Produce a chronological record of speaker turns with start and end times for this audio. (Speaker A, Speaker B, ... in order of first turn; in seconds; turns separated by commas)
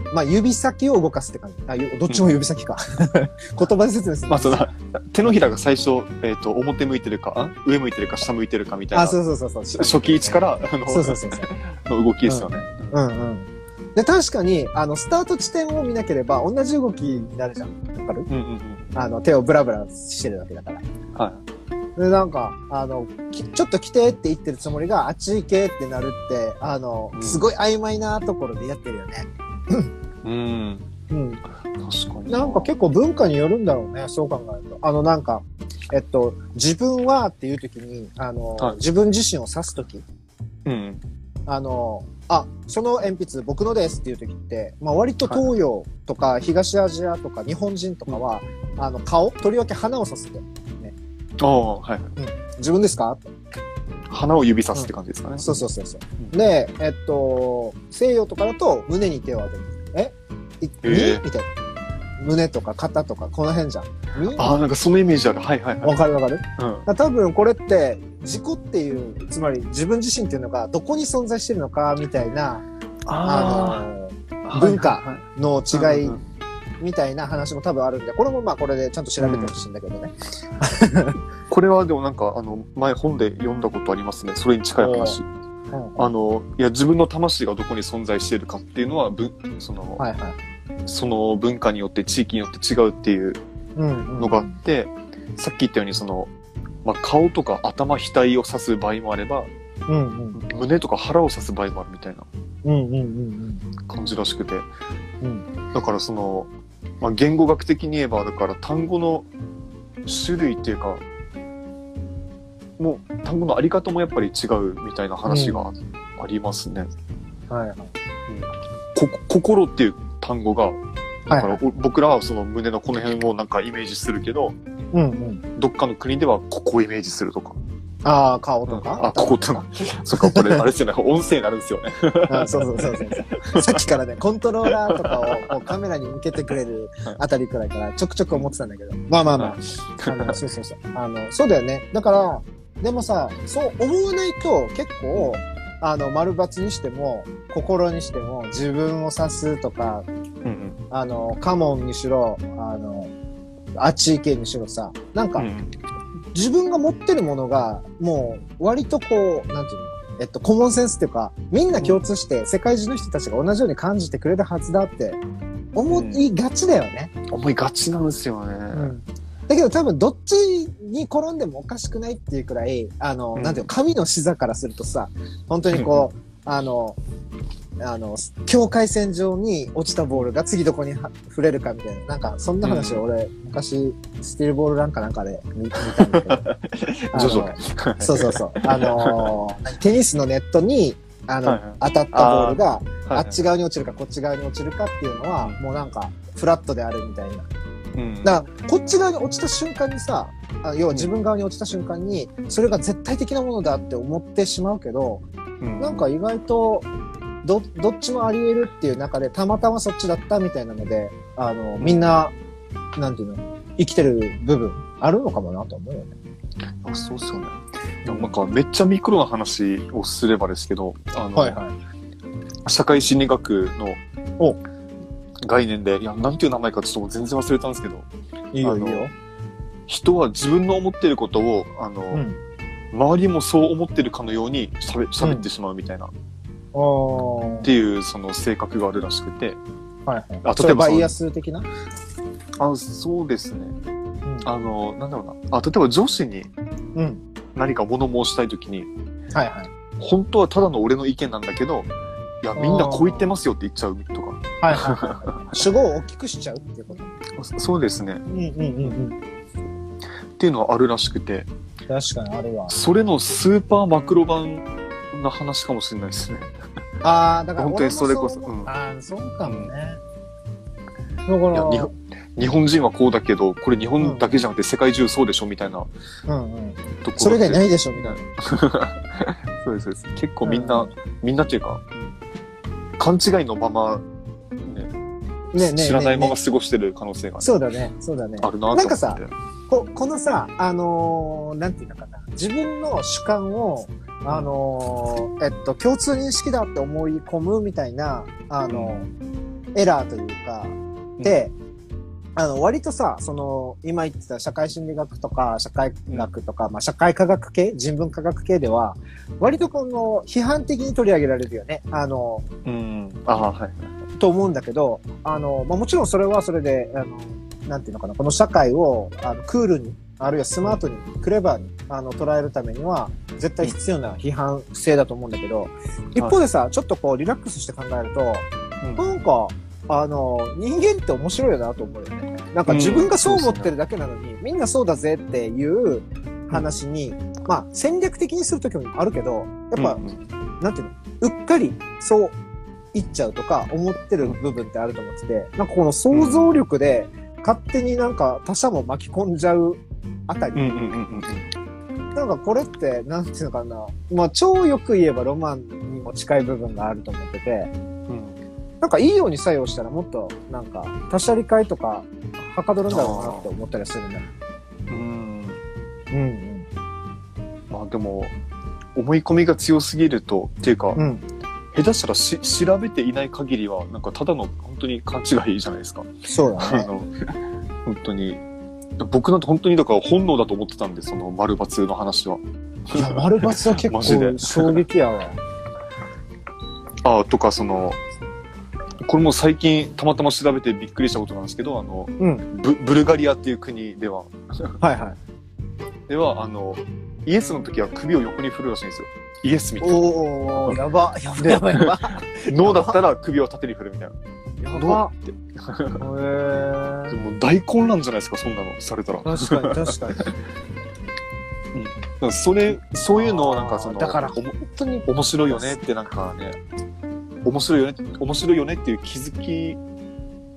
Speaker A: 0.1-4.7, Speaker B: 2.1-2.4, Speaker B: 4.3-9.2, Speaker A: 8.9-11.5, Speaker B: 9.8-12.9, Speaker A: 12.3-18.3, Speaker B: 18.3-18.9, Speaker A: 18.9-20.8, Speaker B: 21.1-21.4, Speaker A: 22.0-29.9, Speaker B: 27.1-27.5, Speaker B: 30.2-30.9, Speaker A: 31.1-31.4, Speaker B: 31.8-32.7, Speaker A: 32.3-40.0, Speaker B: 40.7-41.0, Speaker A: 41.5-51.0, Speaker B: 51.4-52.1, Speaker A: 52.2-53.3, Speaker B: 54.1-55.6, Speaker A: 54.8-61.5, Speaker B: 60.8-61.2, Speaker A: 62.2-64.6, Speaker B: 64.4-66.0, Speaker A: 65.8-72.7, Speaker B: 66.6-66.9, Speaker B: 73.1-73.9, Speaker A: 73.2-76.2, Speaker B: 74.5-75.2, Speaker B: 75.7-76.2, Speaker A: 76.8-81.2, Speaker B: 79.2-79.5, Speaker B: 81.5-85.3, Speaker A: 84.8-85.2, Speaker A: 85.7-86.1, Speaker B: 86.0-90.0, Speaker A: 90.0-90.4, Speaker B: 90.9-93.4, Speaker A: 93.8-94.6, Speaker B: 94.2-96.3, Speaker B: 96.8-99.5, Speaker A: 99.9-100.4, Speaker B: 100.4-102.3, Speaker A: 102.6-103.7, Speaker B: 103.9-104.7, Speaker A: 105.2-105.5, Speaker B: 105.7-106.5, Speaker B: 107.0-109.3, Speaker B: 110.0-111.0, Speaker B: 112.8-116.9, Speaker A: 115.3-115.7, Speaker A: 117.5-117.9, Speaker B: 118.3-124.6, Speaker A: 121.3-121.6, Speaker A: 124.9-125.4, Speaker B: 125.6-127.6, Speaker A: 128.1-130.7, Speaker B: 128.7-133.8, Speaker A: 132.3-150.1, Speaker B: 134.7-135.5, Speaker B: 139.3-140.4, Speaker B: 150.4-150.8, Speaker A: 150.9-153.1, Speaker A: 153.8-155.5, Speaker B: 155.4-155.7, Speaker A: 156.3-165.2, Speaker B: 161.8-162.1, Speaker A: 165.8-167.1, Speaker B: 165.9-166.2, Speaker B: 167.3-168.9, Speaker A: 168.7-177.0, Speaker B: 173.4-173.7, Speaker B: 175.7-176.1, Speaker A: 177.8-186.5, Speaker B: 182.6-183.0, Speaker B: 185.9-189.3, Speaker A: 187.1-197.5, Speaker B: 191.4-193.4, Speaker B: 198.0-198.4, Speaker A: 198.2-205.2, Speaker B: 205.6-206.1, Speaker A: 205.8-206.9, Speaker A: 207.4-212.3, Speaker B: 211.8-212.1, Speaker A: 213.0-216.2, Speaker B: 216.8-221.6, Speaker A: 218.1-218.3, Speaker A: 221.4-221.7, Speaker B: 222.7-224.0, Speaker B: 225.4-228.1, Speaker A: 228.5-229.1, Speaker B: 228.6-229.1, Speaker B: 229.9-232.2, Speaker A: 232.1-232.4, Speaker B: 232.9-236.1, Speaker A: 236.7-237.7, Speaker B: 237.6-239.6, Speaker A: 240.1-241.7, Speaker B: 240.4-241.1, Speaker B: 242.6-243.8, Speaker B: 244.4-246.5, Speaker A: 247.0-247.2, Speaker B: 247.6-248.9, Speaker A: 249.3-249.7, Speaker B: 250.0-251.9, Speaker B: 252.4-255.6, Speaker A: 252.6-253.3, Speaker A: 254.6-257.1, Speaker B: 257.4-258.2, Speaker A: 258.3-259.2, Speaker B: 260.4-261.5, Speaker A: 261.9-262.7, Speaker B: 262.7-266.5, Speaker A: 267.0-270.0, Speaker B: 267.6-268.7, Speaker B: 269.4-269.7, Speaker A: 271.3-271.9, Speaker B: 271.5-275.9, Speaker A: 274.0-274.4, Speaker A: 276.3-278.2, Speaker B: 277.0-282.1, Speaker A: 280.4-280.9, Speaker B: 283.0-284.0, Speaker B: 284.6-284.9, Speaker A: 285.5-286.4, Speaker B: 285.6-287.5, Speaker A: 287.4-299.1, Speaker B: 288.4-289.3, Speaker B: 294.3-294.5, Speaker B: 298.7-299.0, Speaker A: 299.8-301.5, Speaker A: 302.4-312.5, Speaker B: 312.6-313.9, Speaker A: 314.2-340.0, Speaker B: 328.8-329.1, Speaker B: 332.7-333.7, Speaker B: 339.8-340.2, Speaker A: 340.6-342.4, Speaker A: 342.9-350.8, Speaker B: 346.1-346.6, Speaker B: 350.6-351.5, Speaker A: 352.1-357.7, Speaker B: 358.1-358.4, Speaker A: 358.8-364.3, Speaker B: 362.9-363.5, Speaker B: 364.9-365.6, Speaker A: 366.1-366.7, Speaker B: 367.7-368.3, Speaker B: 368.9-371.0, Speaker A: 370.9-371.2, Speaker B: 371.7-376.1, Speaker A: 376.3-376.9, Speaker B: 376.6-377.1, Speaker B: 377.9-378.4, Speaker B: 379.0-384.8, Speaker A: 382.9-385.4, Speaker B: 387.0-388.0, Speaker B: 389.1-394.8, Speaker A: 394.8-395.2, Speaker B: 396.1-400.8, Speaker A: 399.8-403.0, Speaker B: 401.4-404.1, Speaker A: 404.6-405.1, Speaker B: 404.7-406.0, Speaker A: 406.0-407.2, Speaker B: 407.1-409.9, Speaker A: 409.2-410.3, Speaker B: 411.7-416.6, Speaker A: 412.7-415.8, Speaker B: 417.4-419.8